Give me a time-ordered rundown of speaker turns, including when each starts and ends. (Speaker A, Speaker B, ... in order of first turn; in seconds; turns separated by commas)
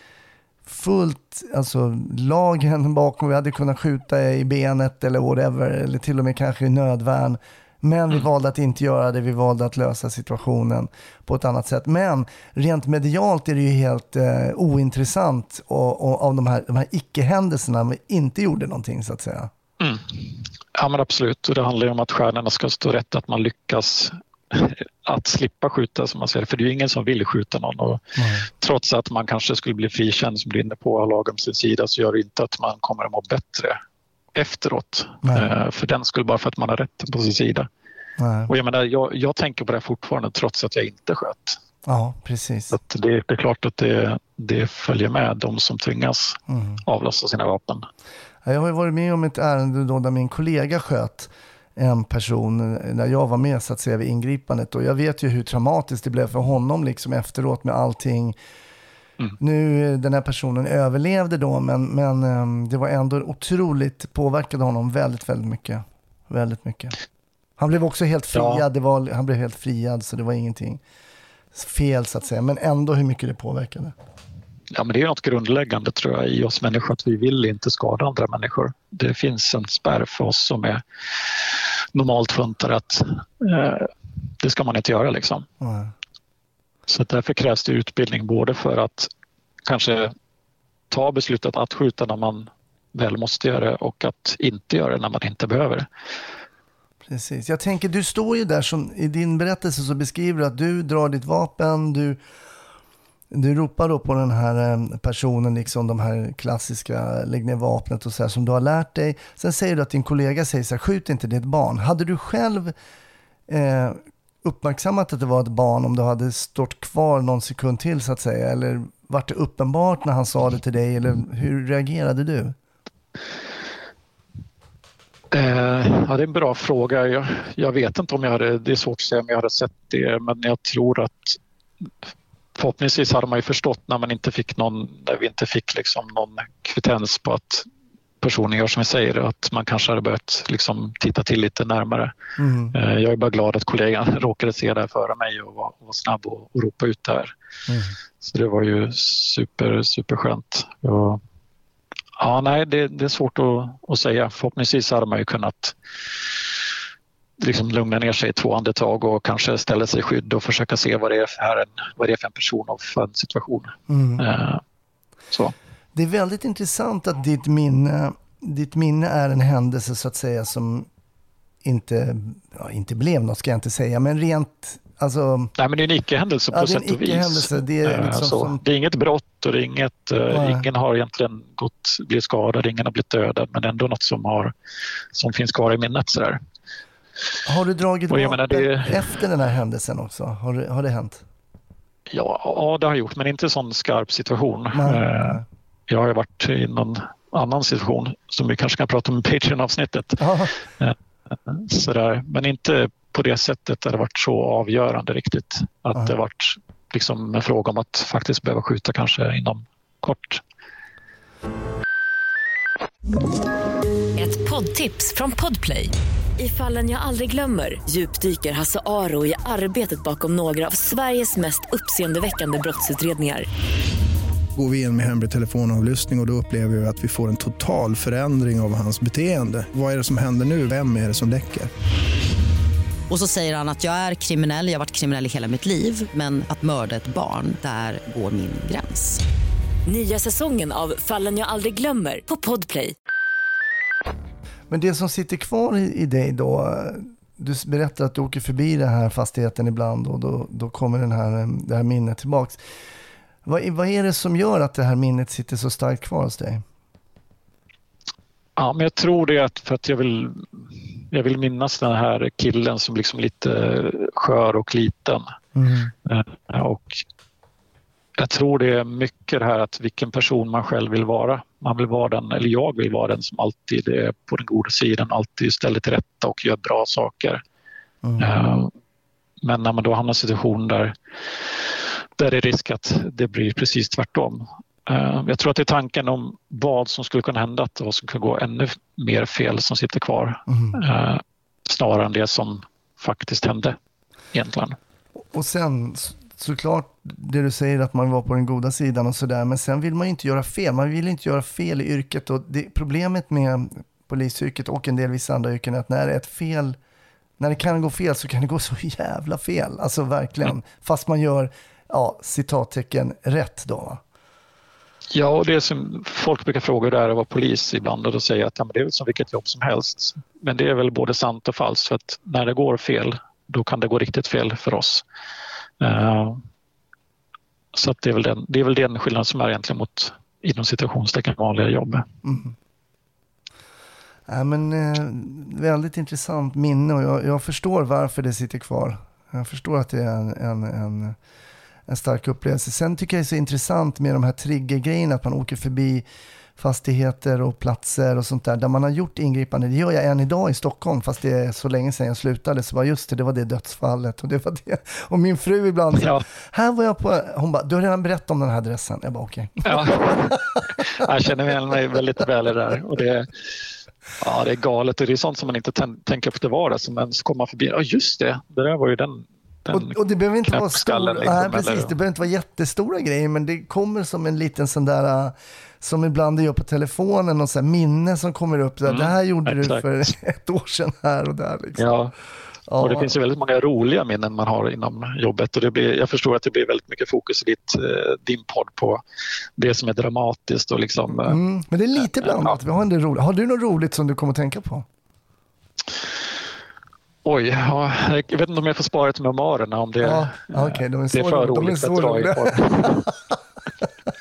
Speaker A: 0.7-19.5, Speaker B: 19.8-33.8, Speaker A: 28.2-28.5, Speaker B: 34.3-37.7, Speaker A: 38.2-38.5, Speaker B: 38.5-41.6, Speaker A: 41.9-42.8, Speaker B: 42.7-47.9, Speaker A: 46.5-46.8, Speaker A: 48.4-58.4, Speaker A: 59.4-67.0, Speaker A: 67.6-70.8, Speaker B: 68.3-68.6, Speaker A: 71.5-74.0, Speaker B: 74.7-80.8, Speaker B: 81.9-85.5, Speaker A: 85.6-85.9, Speaker B: 86.9-89.1, Speaker B: 89.7-90.2, Speaker B: 90.9-95.9, Speaker A: 97.1-102.2, Speaker A: 103.3-112.7, Speaker A: 113.5-122.5, Speaker B: 125.3-131.4, Speaker B: 132.6-137.7, Speaker B: 138.2-142.2, Speaker A: 142.4-142.8, Speaker B: 142.7-147.3, Speaker A: 147.7-147.9, Speaker B: 148.2-151.2, Speaker B: 152.2-155.8, Speaker B: 157.4-164.6, Speaker A: 163.9-164.3, Speaker A: 165.9-170.9, Speaker A: 171.6-175.5, Speaker B: 175.6-184.5, Speaker A: 176.5-178.6, Speaker A: 180.3-180.7, Speaker B: 185.1-186.4, Speaker A: 187.4-191.2, Speaker B: 188.1-189.2, Speaker B: 192.1-200.3, Speaker A: 194.7-195.4, Speaker A: 200.2-200.5, Speaker B: 200.8-210.4, Speaker C: 214.2-223.5, Speaker D: 224.6-231.7, Speaker E: 233.1-239.2, Speaker C: 239.9-242.9, Speaker A: 244.7-252.6, Speaker A: 253.4-256.6, Speaker B: 258.6-265.2, Speaker A: 265.6-265.9, Speaker B: 266.1-267.0, Speaker B: 268.2-277.4, Speaker A: 278.0-278.3, Speaker B: 278.2-278.7, Speaker B: 279.4-293.8, Speaker A: 290.5-290.8, Speaker B: 294.3-294.8, Speaker A: 295.2-306.8, Speaker A: 307.4-314.0, Speaker B: 315.1-325.0, Speaker B: 325.8-326.4, Speaker B: 327.7-332.1, Speaker A: 332.2-332.6, Speaker A: 334.3-341.2, Speaker A: 341.9-346.0, Speaker A: 346.6-360.8, Speaker B: 356.0-356.2, Speaker B: 359.6-363.6, Speaker B: 364.2-370.0, Speaker A: 369.7-381.9, Speaker B: 370.5-371.9, Speaker B: 378.9-379.9, Speaker B: 381.8-382.1, Speaker A: 382.7-383.2, Speaker B: 382.8-389.0, Speaker B: 389.6-391.4, Speaker A: 391.1-394.9, Speaker B: 392.2-392.6, Speaker B: 397.2-403.1, Speaker A: 400.0-403.2